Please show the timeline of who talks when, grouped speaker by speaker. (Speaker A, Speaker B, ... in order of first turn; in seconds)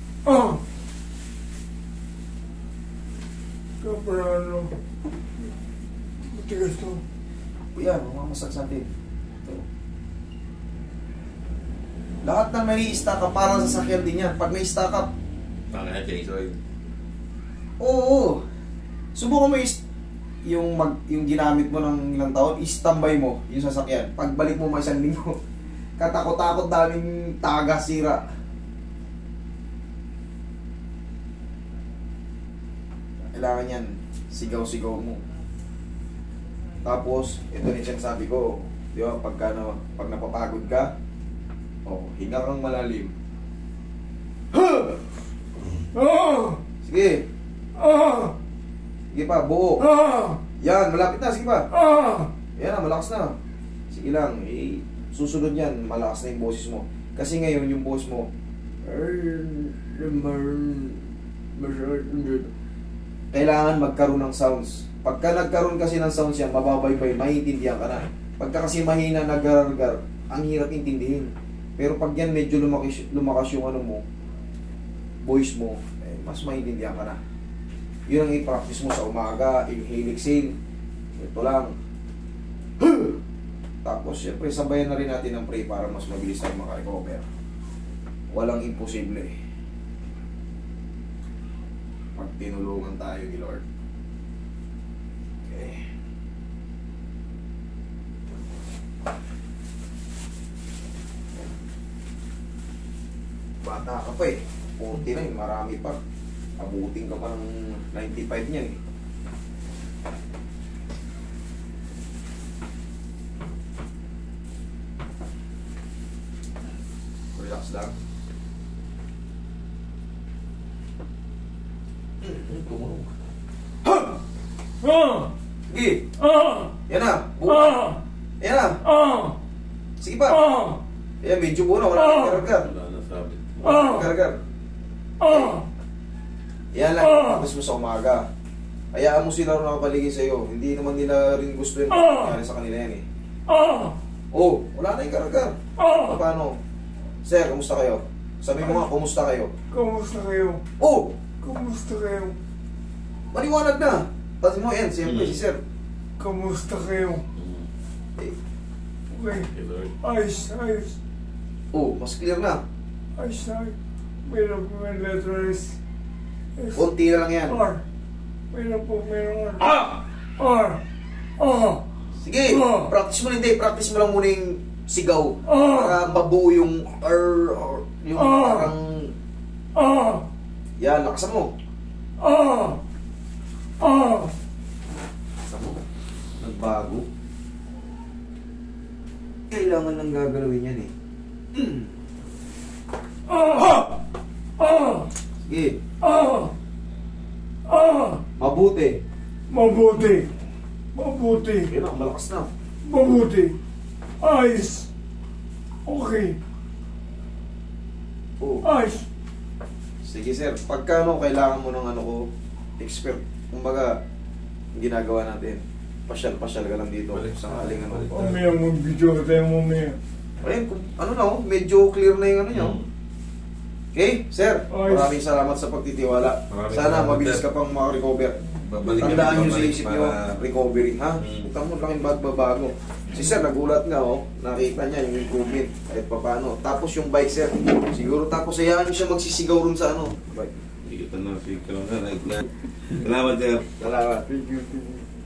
Speaker A: 0.3-0.6, 3.8-4.7, 6.2-7.0, 46.0-46.6, 47.8-48.3, 49.9-50.4, 51.9-52.3, 143.5-143.9, 149.7-150.6, 151.4-152.4, 156.2-157.2, 159.1-159.5, 160.0-161.0, 163.2-165.8, 166.6-166.9, 167.4-167.8, 168.5-170.8, 171.4-171.8, 172.5-172.9, 175.5-176.0, 178.2-178.7, 179.8-180.2, 182.3-182.7, 193.3-193.9, 194.6-195.1, 196.0-196.5, 197.7-198.2, 199.5-200.3, 200.9-201.7, 202.8-203.6, 204.2-204.9, 205.9-206.4, 208.6-209.1, 218.2-220.0, 224.7-225.1, 244.3-245.1
Speaker B: 7.7-8.9, 12.2-15.1, 17.8-18.4, 19.1-19.8, 20.5-25.4, 26.0-28.2, 33.3-35.2, 36.8-40.9, 41.9-43.1, 44.5-45.0, 46.8-47.3, 49.1-49.9, 50.6-51.7, 52.6-53.4, 53.9-58.3, 58.8-62.5, 63.3-74.0, 75.2-77.2, 78.1-80.6, 81.2-81.7, 82.8-83.2, 83.8-87.3, 88.3-89.3, 92.2-93.6, 95.5-95.9, 103.6-106.0, 106.6-108.8, 117.3-117.9, 122.2-123.1, 123.8-124.1, 125.7-126.1, 126.9-128.9, 130.0-130.6, 131.2-132.7, 133.6-134.4, 135.2-135.6, 136.7-138.3, 138.9-143.1, 144.3-146.6, 147.2-149.5, 150.8-151.2, 153.3-155.6, 161.7-162.6, 166.8-167.7, 169.7-170.0, 172.2-179.1, 180.8-181.5, 185.4-185.8, 186.4-187.1, 189.5-190.9, 191.6-191.9, 195.4-195.8, 198.4-199.0, 201.7-202.5, 208.4-208.7, 210.0-212.2, 212.8-213.9, 214.8-218.4, 220.4-222.8, 223.9-240.5, 243.8-244.4
Speaker C: 15.7-16.6, 132.4-133.8, 155.0-155.4, 157.4-157.7, 159.5-159.9, 217.1-218.3, 222.5-222.8, 226.5-227.5, 228.6-230.4, 231.2-231.5, 240.8-243.8